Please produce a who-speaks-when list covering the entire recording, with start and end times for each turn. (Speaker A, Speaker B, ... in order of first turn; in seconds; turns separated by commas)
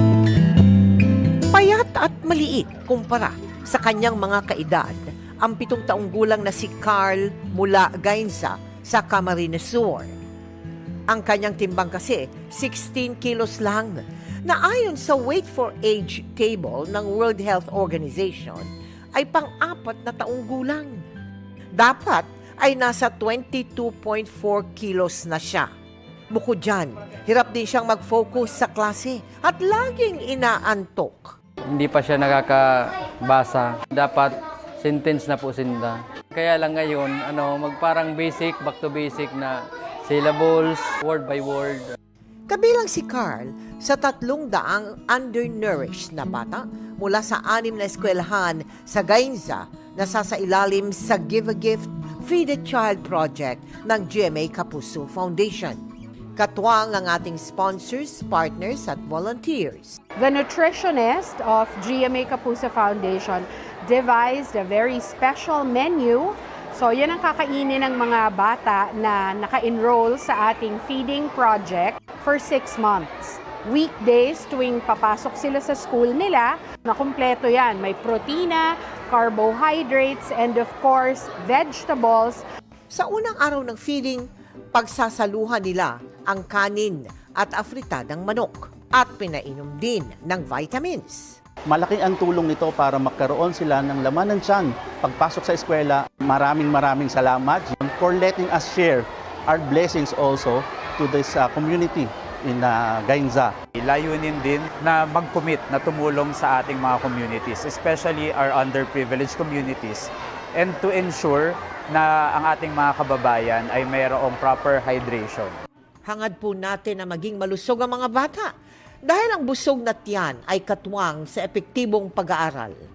Speaker A: 1.5-10.1, Speaker A: 11.1-21.0, Speaker A: 21.7-25.7, Speaker A: 26.3-31.4, Speaker B: 31.7-41.9, Speaker A: 42.5-55.8, Speaker A: 56.4-60.0, Speaker C: 60.1-82.4, Speaker A: 82.9-91.4, Speaker D: 91.7-103.5, Speaker E: 103.8-115.6, Speaker A: 116.0-118.5, Speaker A: 119.0-122.8